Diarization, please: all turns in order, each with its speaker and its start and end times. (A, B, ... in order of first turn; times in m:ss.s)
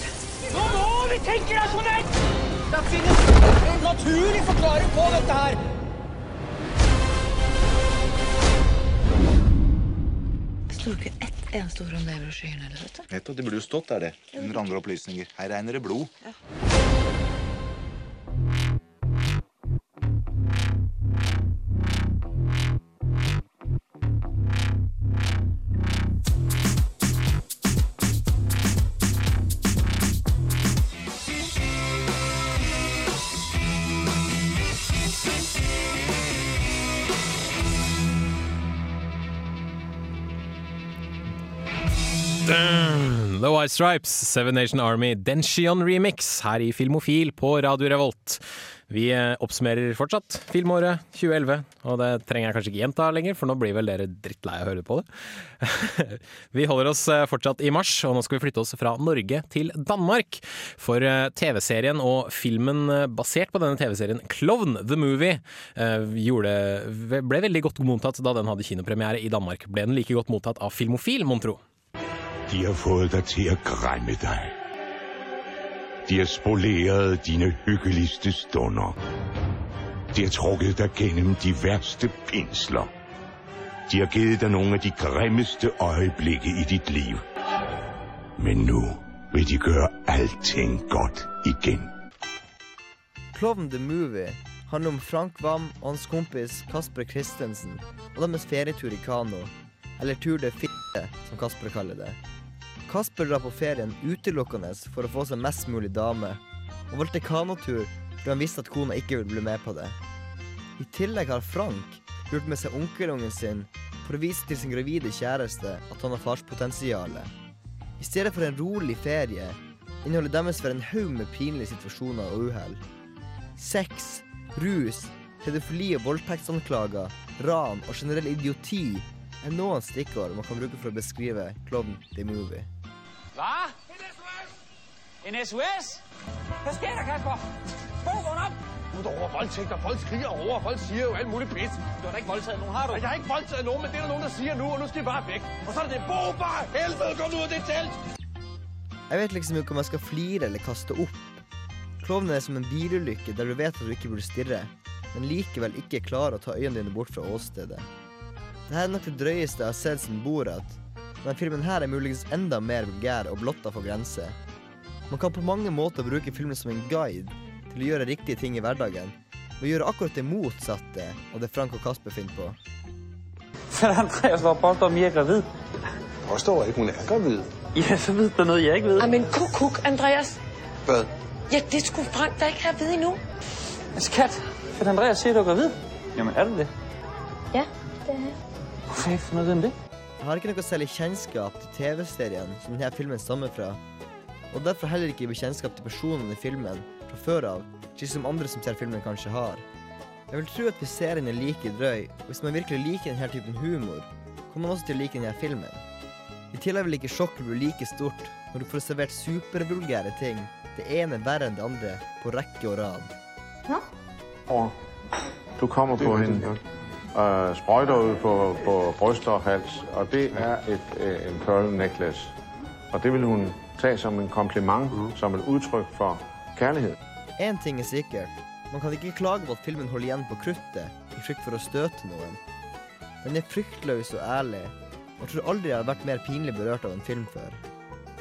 0:00.5-0:02.0 A
0:02.7-0:05.6 A
0:10.7-0:13.0 B
0:13.1-0:16.1 C
0:42.4-0:55.1 D
0:55.6-1:11.6 D
1:12.5-1:14.6 E
1:16.1-1:19.0 E
1:20.1-1:22.9 E
1:23.9-1:27.2 E
1:28.4-1:31.9 E
1:33.3-1:42.2 F
1:42.9-1:50.0 F
1:50.8-1:57.3 F
1:58.0-2:02.8 F
2:03.6-2:12.7 F
2:13.4-2:13.7 A
2:15.2-2:15.9 A
2:16.6-2:17.4 A
2:18.0-2:27.9 A
2:29.1-2:31.4 F
2:32.0-2:37.9 F
2:38.7-2:44.4 F
2:45.1-2:52.6 F
2:53.7-2:55.4 G
2:57.8-2:59.1 G
2:59.0-3:00.4 H
3:01.5-3:03.2 H
3:04.0-3:06.7 G
3:08.9-3:09.7 G
3:10.2-3:13.8 F
3:14.5-3:19.6 F
3:20.3-3:25.8 F
3:26.5-3:33.1 F
3:34.5-3:34.7 I
3:35.6-3:36.6 I
3:37.1-3:42.3 I
3:42.9-3:47.0 I
3:47.4-3:52.4 F
3:53.2-3:57.6 F